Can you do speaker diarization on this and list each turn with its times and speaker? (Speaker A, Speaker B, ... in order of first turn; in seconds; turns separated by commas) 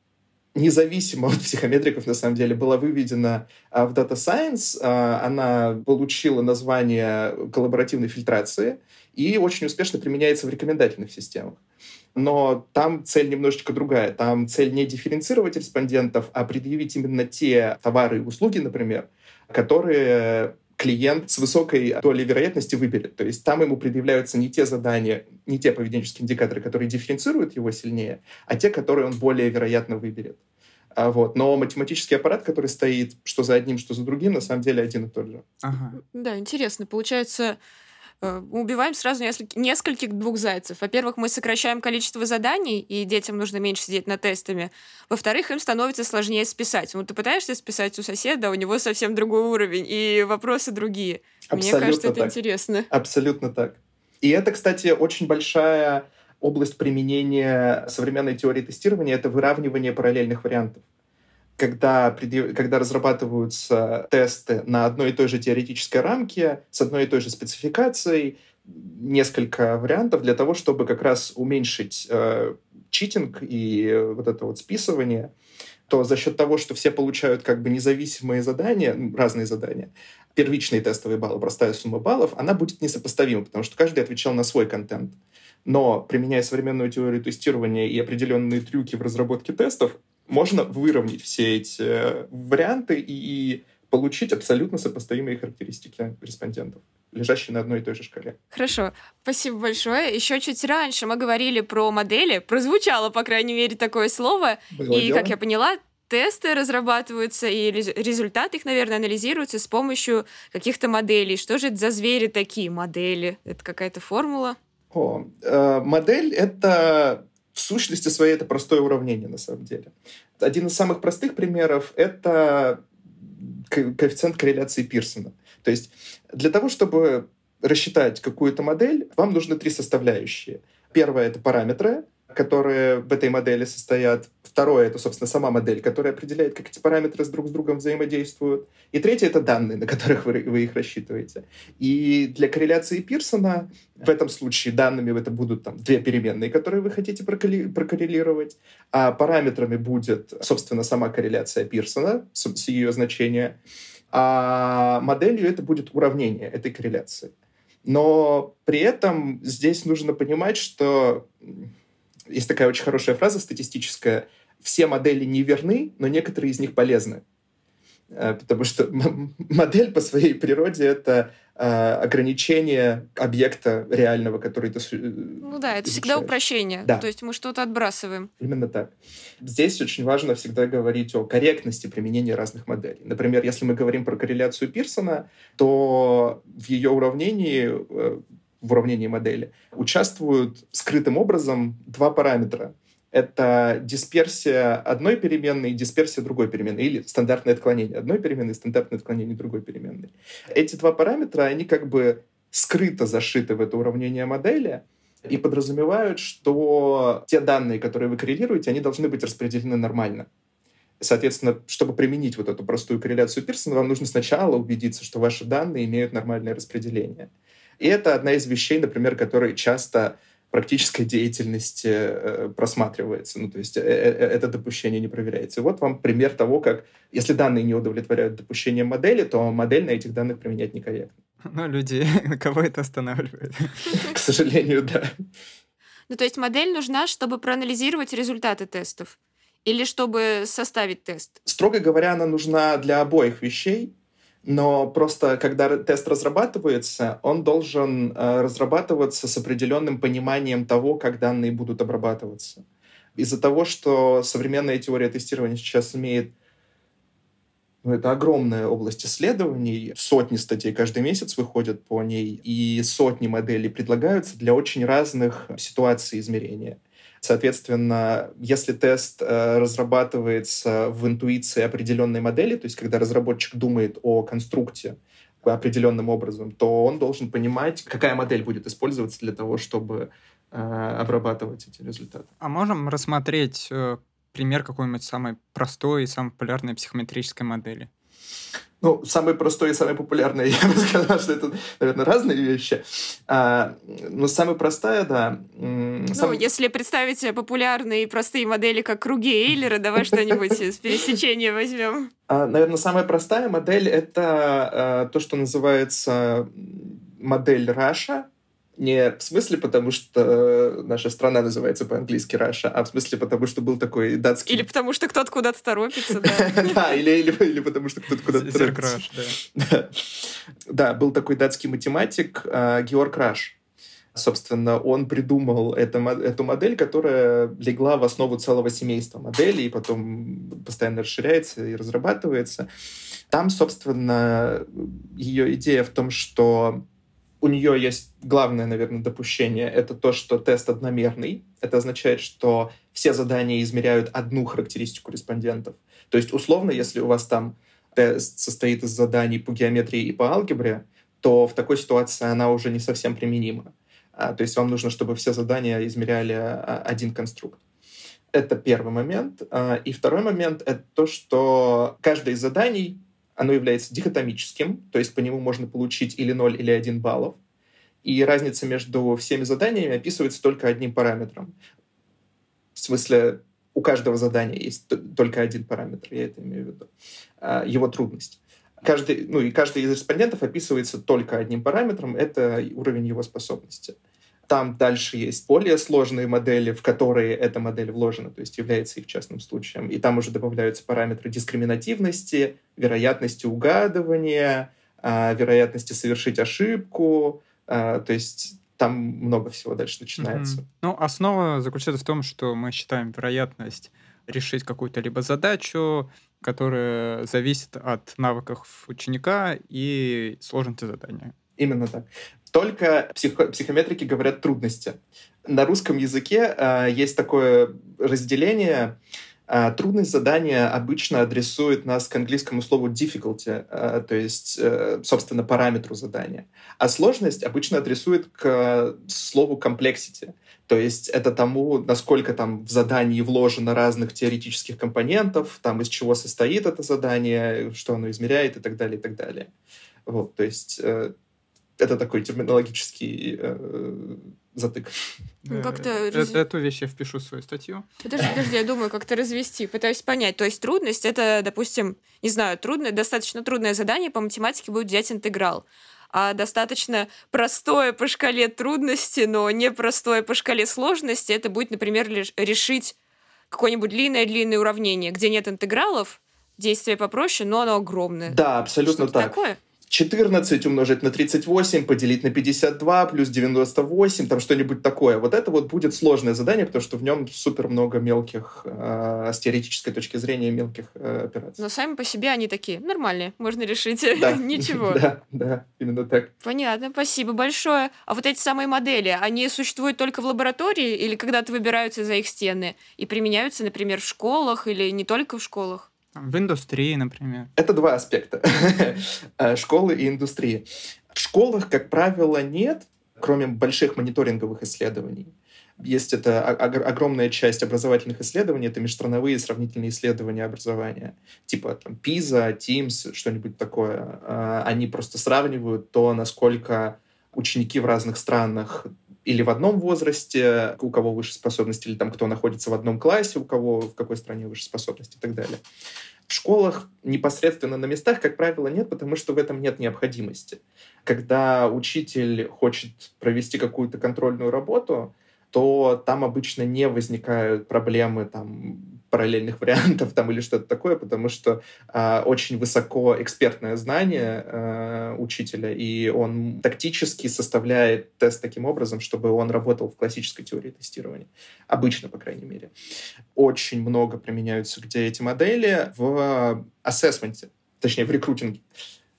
Speaker A: 0.5-11.6, Speaker A: 12.1-30.4, Speaker A: 30.9-35.5, Speaker B: 35.6-36.0, Speaker C: 36.0-37.6, Speaker C: 38.2-52.9, Speaker A: 51.5-52.3, Speaker A: 52.9-60.8, Speaker A: 61.6-75.3, Speaker A: 75.9-98.4, Speaker C: 98.5-114.6, Speaker A: 104.7-105.3, Speaker A: 114.9-122.8, Speaker A: 123.4-153.6, Speaker A: 154.1-157.3, Speaker A: 157.8-161.7, Speaker A: 162.3-167.2, Speaker A: 168.1-177.1, Speaker C: 175.4-178.3, Speaker A: 178.4-210.3, Speaker A: 211.0-231.1, Speaker B: 231.4-233.8, Speaker A: 233.9-235.1, Speaker C: 236.1-241.4, Speaker A: 241.4-243.9, Speaker A: 244.4-252.6, Speaker A: 253.2-256.3, Speaker A: 257.8-282.3, Speaker B: 282.4-287.9, Speaker A: 288.8-296.4, Speaker C: 296.1-302.1, Speaker A: 300.0-300.5, Speaker A: 302.3-314.7, Speaker C: 314.5-316.9, Speaker A: 316.2-319.9, Speaker B: 318.3-319.4, Speaker A: 320.7-323.6, Speaker A: 324.1-332.7, Speaker A: 333.3-336.8, Speaker A: 337.4-357.6, Speaker A: 358.3-367.4, Speaker A: 368.0-371.5, Speaker A: 372.8-376.9, Speaker A: 377.4-383.9, Speaker A: 384.5-400.6, Speaker B: 400.2-411.3, Speaker A: 411.6-419.0, Speaker A: 419.5-439.5, Speaker A: 440.1-441.1, Speaker A: 441.8-444.9, Speaker B: 445.4-447.9, Speaker C: 445.5-446.4, Speaker C: 448.0-462.9, Speaker C: 463.5-469.6, Speaker A: 468.3-469.3, Speaker A: 469.9-481.6, Speaker C: 481.6-485.0, Speaker A: 484.1-486.3, Speaker C: 486.4-495.9, Speaker B: 496.1-497.5, Speaker A: 497.6-525.6, Speaker A: 526.3-552.7, Speaker A: 553.3-558.6